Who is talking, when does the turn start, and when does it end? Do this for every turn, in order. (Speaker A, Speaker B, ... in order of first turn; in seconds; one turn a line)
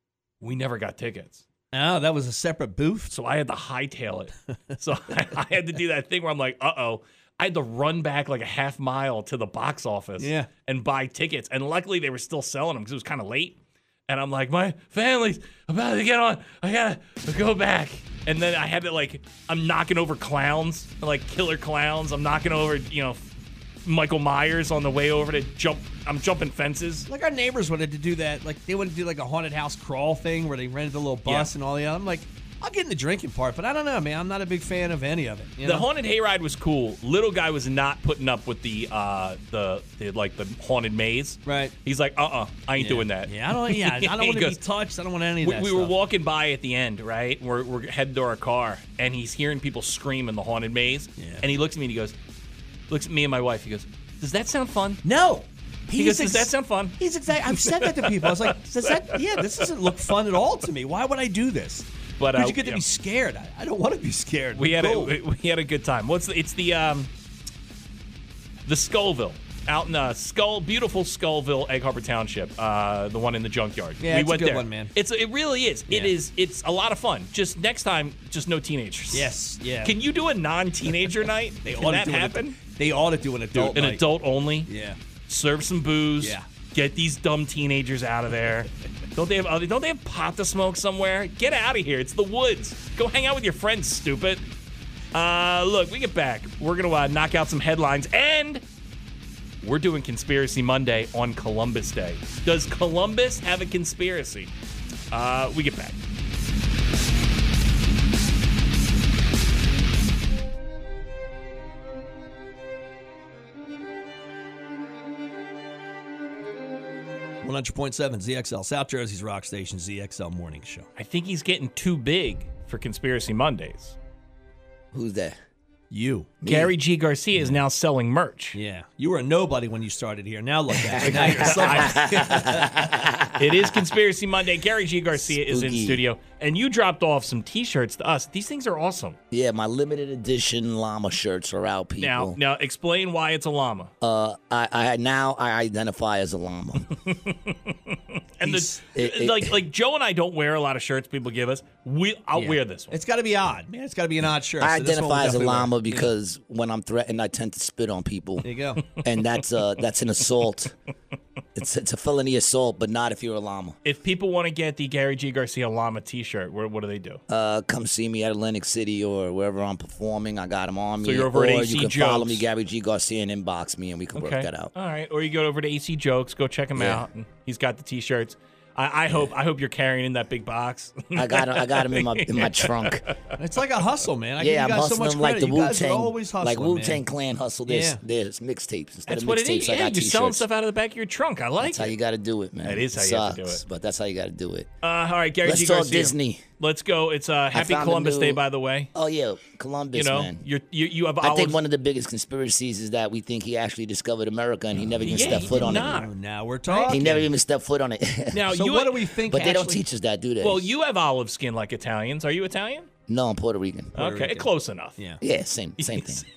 Speaker A: 0.4-1.4
Speaker B: 1.7-3.1
Speaker A: 3.1-23.2
Speaker B: 10.2-10.5
Speaker A: 23.8-27.1
Speaker B: 27.1-35.9
Speaker A: 31.2-31.5
Speaker A: 35.6-44.6
Speaker B: 41.5-41.7
Speaker B: 42.8-45.9
Speaker A: 45.4-52.1
Speaker B: 51.2-51.4
Speaker A: 52.9-55.0
Speaker B: 55.0-65.1
Speaker A: 55.9-59.7
Speaker A: 62.2-62.8
Speaker A: 64.5-67.1
Speaker A: 68.7-82.6
Speaker B: 74.0-74.9
Speaker B: 75.9-76.1
Speaker B: 79.1-79.9
Speaker B: 81.6-84.0
Speaker A: 83.5-84.7
Speaker B: 84.7-85.0
Speaker A: 85.3-94.4
Speaker B: 86.2-86.5
Speaker A: 95.1-98.6
Speaker A: 99.6-104.5
Speaker A: 105.1-106.0
Speaker B: 117.4-120.9
Speaker A: 121.0-124.0
Speaker C: 124.9-125.4
Speaker B: 125.9-126.4
Speaker C: 126.4-126.7
Speaker A: 126.4-128.6
Speaker B: 128.5-132.9
Speaker C: 130.8-133.7
Speaker A: 131.0-132.5
Speaker A: 133.4-139.2
Speaker C: 135.2-136.0
Speaker C: 139.3-142.4
Speaker A: 142.0-143.9
Speaker C: 144.0-146.9
Speaker A: 147.1-153.0
Speaker C: 148.4-149.5
Speaker B: 152.3-156.1
Speaker C: 154.6-158.4
Speaker B: 158.4-158.8
Speaker C: 159.0-160.7
Speaker C: 161.6-163.8
Speaker A: 163.8-167.2
Speaker C: 167.3-174.7
Speaker A: 171.0-172.4
Speaker A: 174.1-183.3
Speaker C: 176.8-177.0
Speaker C: 181.1-183.0
Speaker B: 183.4-187.0
Speaker C: 184.4-190.4
Speaker B: 187.7-188.0
Speaker A: 189.1-191.9
Speaker C: 191.6-194.7
Speaker A: 192.6-193.6
Speaker A: 194.8-198.9
Speaker C: 195.4-196.4
Speaker C: 197.5-198.4
Speaker C: 198.9-200.4
Speaker A: 199.9-201.6
Speaker C: 201.2-206.0
Speaker B: 204.7-207.3
Speaker A: 205.0-206.1
Speaker A: 206.7-207.1
Speaker C: 206.9-208.4
Speaker A: 208.3-209.7
Speaker B: 208.5-209.8
Speaker C: 209.3-210.7
Speaker A: 210.4-212.9
Speaker C: 213.1-213.9
Speaker A: 213.9-215.0
Speaker B: 213.9-215.2
Speaker C: 215.2-216.2
Speaker A: 215.8-216.2